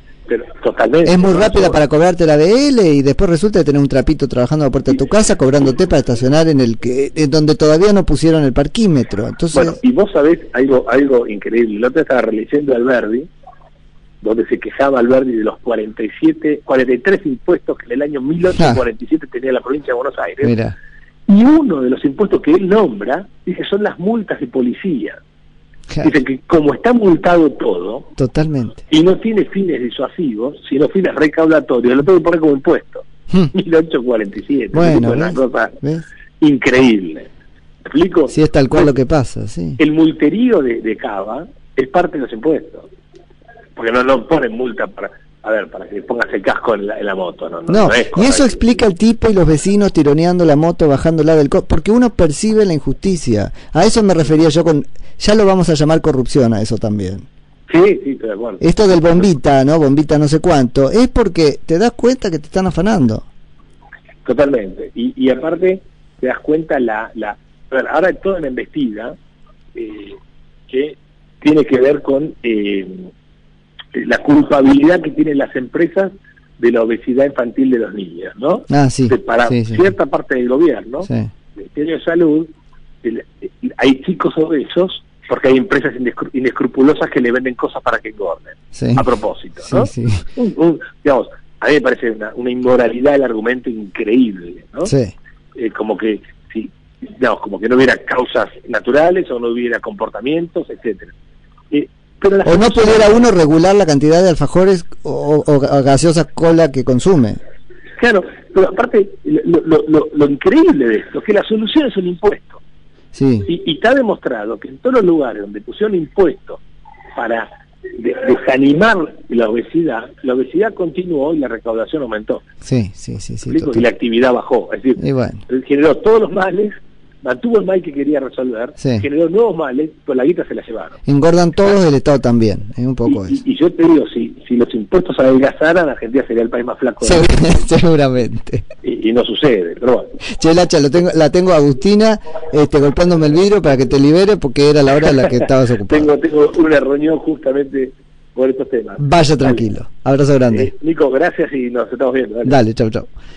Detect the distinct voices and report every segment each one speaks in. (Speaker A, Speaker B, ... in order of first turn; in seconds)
Speaker A: 0.3-1.8, 9.5-13.3, 14.2-20.5, 21.3-25.2, 26.0-28.1, 28.9-35.8, 36.4-37.3, 37.9-38.9, 39.8-42.9, 43.8-48.6, 57.7-58.6, 64.2-69.1, 69.7-70.2, 70.7-73.1, 73.9-82.5, 83.0-94.9, 95.5-101.1, 101.7-103.2, 108.0-112.6, 113.5-116.6, 117.2-122.4, 123.5-131.0, 133.1-137.3, 138.8-140.1, 145.1-149.7, 150.5-152.6
Speaker B: 1.0-9.8, 20.4-20.7, 28.2-28.8, 34.7-36.0, 38.3-39.8, 47.7-57.2, 58.6-63.2, 78.7-79.9, 88.7-89.0, 89.7-90.2, 94.8-95.1, 102.4-107.4, 113.1-113.5, 122.6-123.8, 125.0-125.4, 128.8-129.0, 131.1-133.4, 137.0-138.6, 140.2-146.1, 149.0-150.7, 152.4-153.1